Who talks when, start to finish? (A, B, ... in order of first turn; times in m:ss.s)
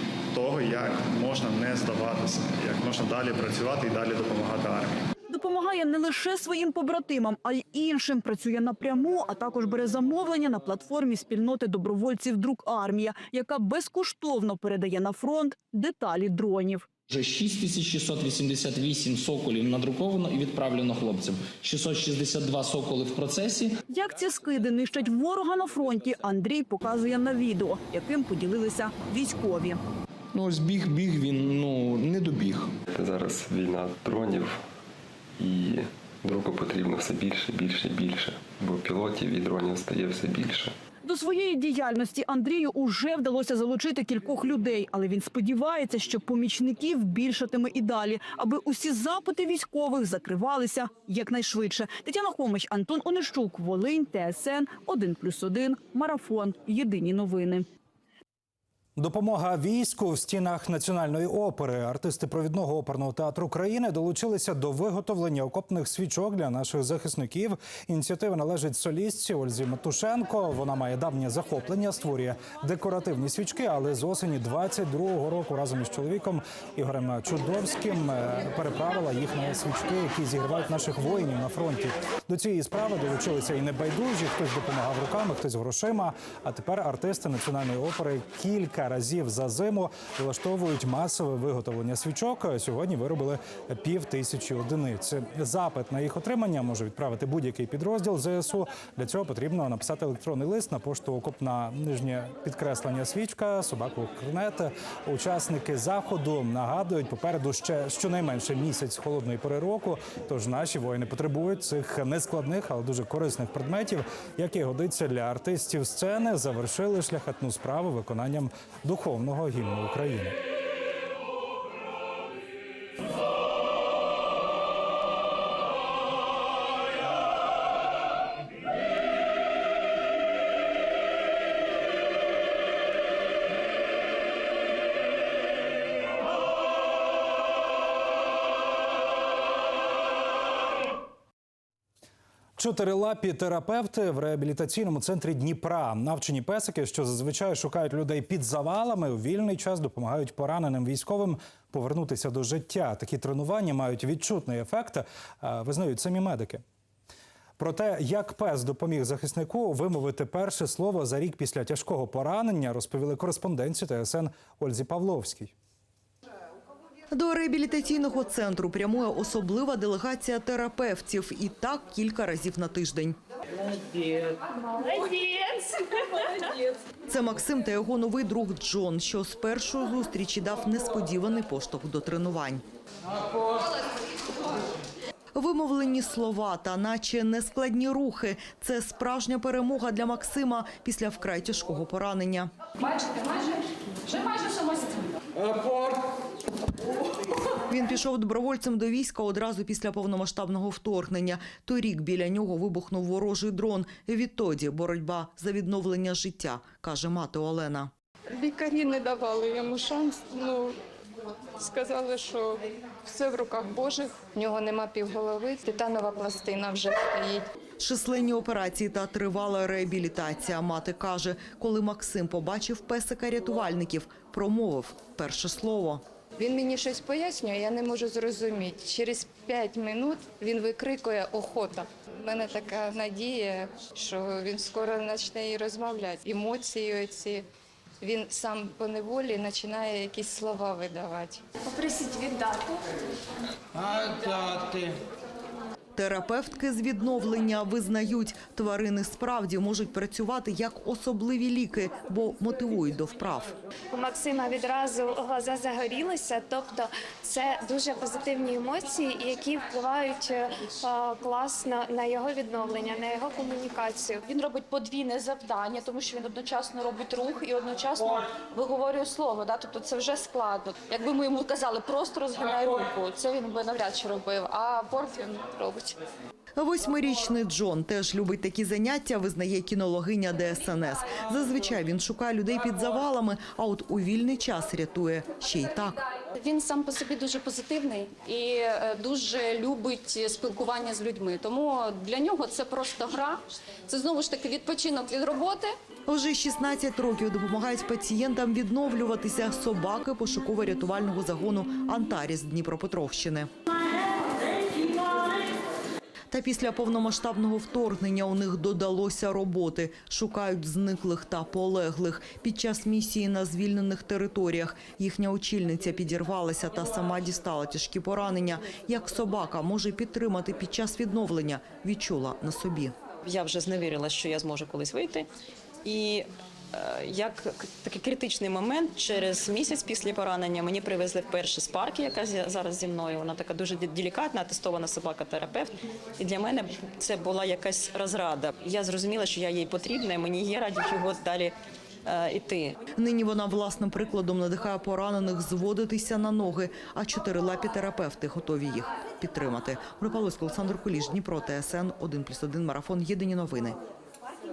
0:00.3-0:05.1 A
0:05.3-0:16.9 B
0:17.1-0:23.8 C
0:23.9-0:29.8 B
0:30.3-0:32.7 C
0:32.9-0:34.6 D
0:35.4-0:40.7 D
0:41.0-0:57.6 B
0:59.0-2:00.4 E
2:22.6-2:36.6 E
2:37.6-2:45.5 E
2:47.1-2:53.2 F
2:54.6-2:55.8 G
2:57.1-3:02.6 F
3:05.3-3:12.5 F
3:12.8-3:15.2 G
3:17.7-3:27.9 F
3:28.3-3:30.8 H
3:31.6-3:37.4 H
3:37.8-3:46.0 F
3:46.4-3:57.4 H
3:58.0-4:01.4 H
4:01.7-4:02.7 I
4:05.9-4:13.5 F
4:13.9-4:24.2 I
4:24.2-4:33.9 G
4:33.8-4:35.9 H
4:36.6-4:46.0 F
4:46.3-4:55.7 G
4:56.1-5:03.5 F
5:06.3-5:22.9 F
5:23.2-5:25.3 J
5:25.8-5:41.5 J
5:42.0-5:42.8 J
5:43.0-5:53.8 F